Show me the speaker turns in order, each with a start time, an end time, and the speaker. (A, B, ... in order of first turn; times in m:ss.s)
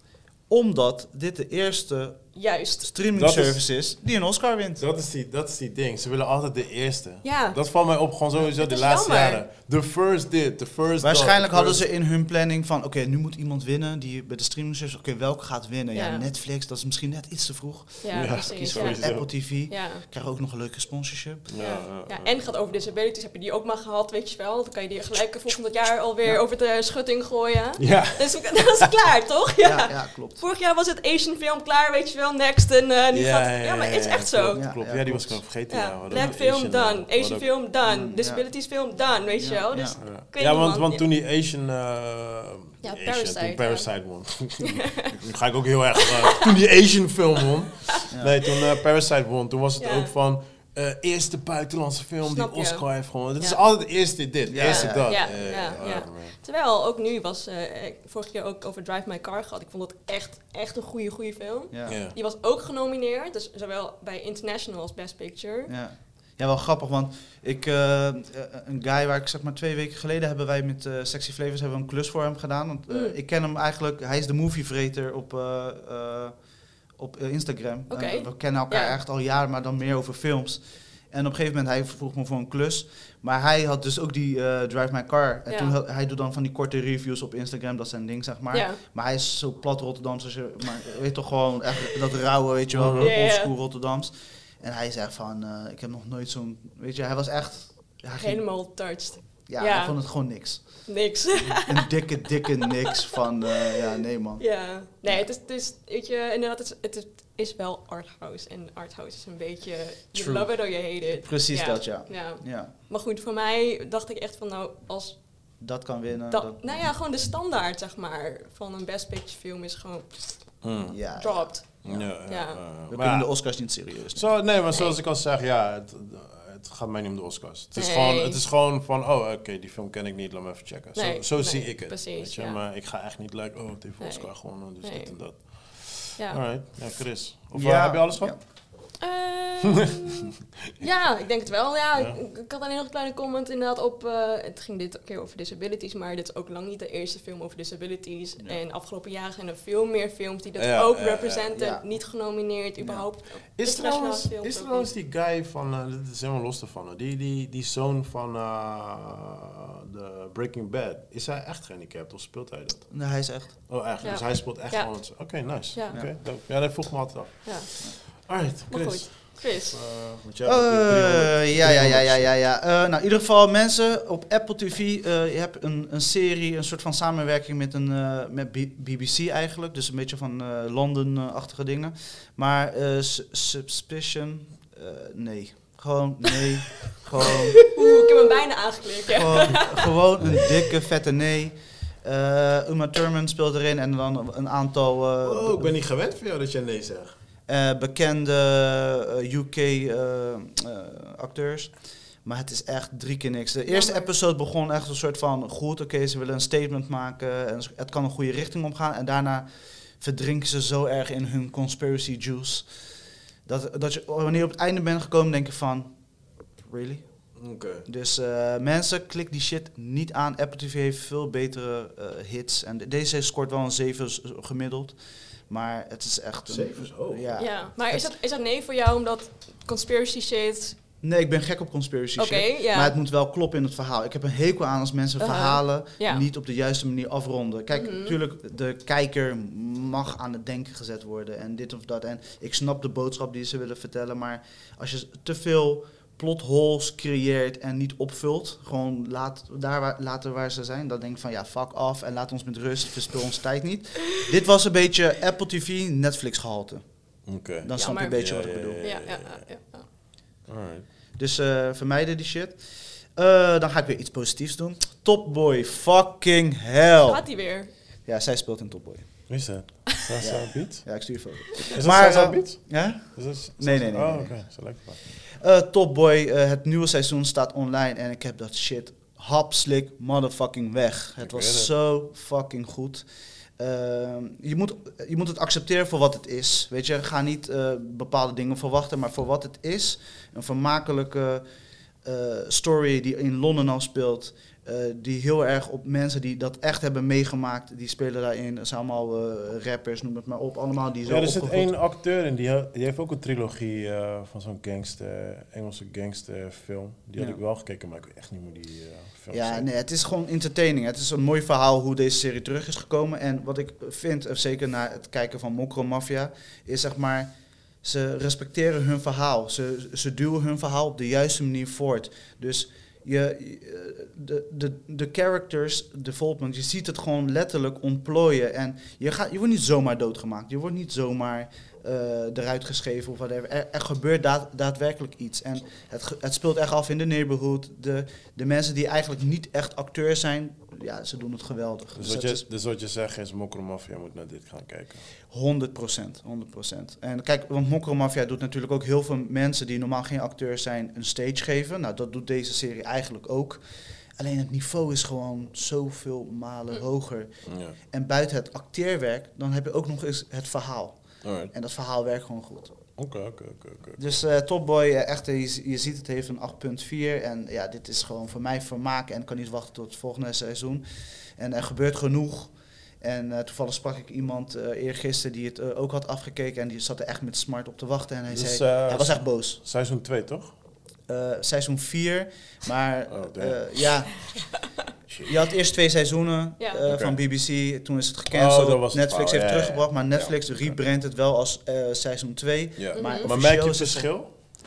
0:00.5-0:02.3 A
0:02.3-0:02.9 B
0:02.8-0:04.8 A
0:03.1-0:03.6 C
0:04.8-0:11.8 C
0:07.2-0:07.6 B
0:08.6-0:09.4 B
0:11.0-0:21.5 A
0:15.9-0:16.3 B
0:18.0-0:20.0 B
0:18.1-0:19.2 C
0:21.5-0:22.5 C
0:21.6-0:34.6 B
0:27.8-0:28.9 C
0:29.6-0:30.4 A
0:33.1-0:37.5 C
0:34.5-0:35.4 A
0:35.7-0:41.0 B
0:37.8-0:38.4 A
0:39.4-0:40.0 A
0:40.0-0:56.4 C
0:42.8-0:43.9 B
0:44.6-0:45.2 B
0:46.1-0:46.4 B
0:49.8-0:50.1 B
0:52.2-0:53.6 B
0:54.5-0:55.4 A
0:54.6-1:05.7 B
1:01.9-1:02.1 C
1:05.7-1:16.3 A
1:12.9-1:13.2 B
1:17.0-1:38.4 A
1:17.9-1:19.0 B
1:25.5-1:25.7 B
1:28.5-1:28.8 B
1:32.7-1:33.1 C
1:33.0-1:33.5 B
1:38.1-1:40.0 B
1:39.5-1:40.6 A
1:40.9-1:43.8 B
1:41.4-1:44.4 A
1:44.4-1:55.2 B
1:50.2-1:50.4 A
1:51.2-1:52.7 A
1:55.6-1:56.9 A
1:56.3-2:00.6 B
2:00.6-2:01.0 C
2:00.9-2:02.1 A
2:01.2-2:02.6 B
2:01.8-2:03.3 C
2:02.9-2:04.3 A
2:04.1-2:18.4 C
2:04.7-2:05.0 B
2:07.7-2:08.4 B
2:11.0-2:12.6 B
2:14.0-2:15.4 B
2:17.5-2:18.4 A
2:19.0-2:34.9 B
2:30.6-2:31.5 C
2:31.5-2:31.8 A
2:32.8-2:33.0 A
2:33.6-2:42.9 C
2:42.9-2:43.5 A
2:43.7-2:52.3 C
2:44.0-2:46.0 B
2:47.4-2:47.7 B
2:48.7-2:49.8 B
2:50.4-3:07.6 A
3:07.3-3:09.9 B
3:09.1-3:15.7 A
3:15.2-3:17.2 C
3:17.5-3:21.7 A
3:22.2-3:29.4 A
3:23.7-3:24.1 B
3:30.0-3:32.7 A
3:33.4-3:35.9 A
3:36.6-3:37.0 A
3:37.4-3:37.8 C
3:37.8-3:45.0 A
3:45.5-3:48.1 A
3:46.5-3:47.3 C
3:47.4-3:50.8 B
3:51.0-4:16.8 A
3:52.2-3:52.9 B
3:55.2-3:56.2 B
3:57.7-3:58.2 B
4:17.3-4:19.4 C
4:17.6-4:18.8 A
4:17.8-4:18.2 B
4:18.8-4:19.8 B
4:20.5-4:20.9 C
4:21.2-4:22.6 A
4:23.2-4:27.2 A
4:27.0-4:27.7 B
4:28.0-4:29.1 A
4:29.3-4:30.9 C
4:30.2-4:34.4 A
4:31.7-4:35.0 C
4:35.2-4:43.0 A
4:41.2-4:41.7 C
4:43.6-4:51.4 A
4:52.0-5:01.7 A
5:01.0-5:09.7 C
5:09.3-5:17.3 A
5:17.8-5:42.4 A
5:42.0-5:45.0 C
5:45.3-5:53.6 A
5:54.2-5:57.3 A
5:57.5-5:57.8 C
5:57.8-6:01.0 A
6:01.2-6:01.5 C
6:01.5-6:02.8 A
6:03.0-6:04.0 C
6:04.0-6:10.8 A
6:11.4-6:19.6 A
6:18.3-6:20.5 C
6:21.1-6:24.2 A
6:23.1-6:23.6 C
6:25.1-6:25.3 C
6:25.2-6:34.1 A
6:26.6-6:26.8 B
6:26.9-6:27.2 C
6:28.3-6:30.8 C
6:32.8-6:34.3 C
6:32.9-6:33.3 B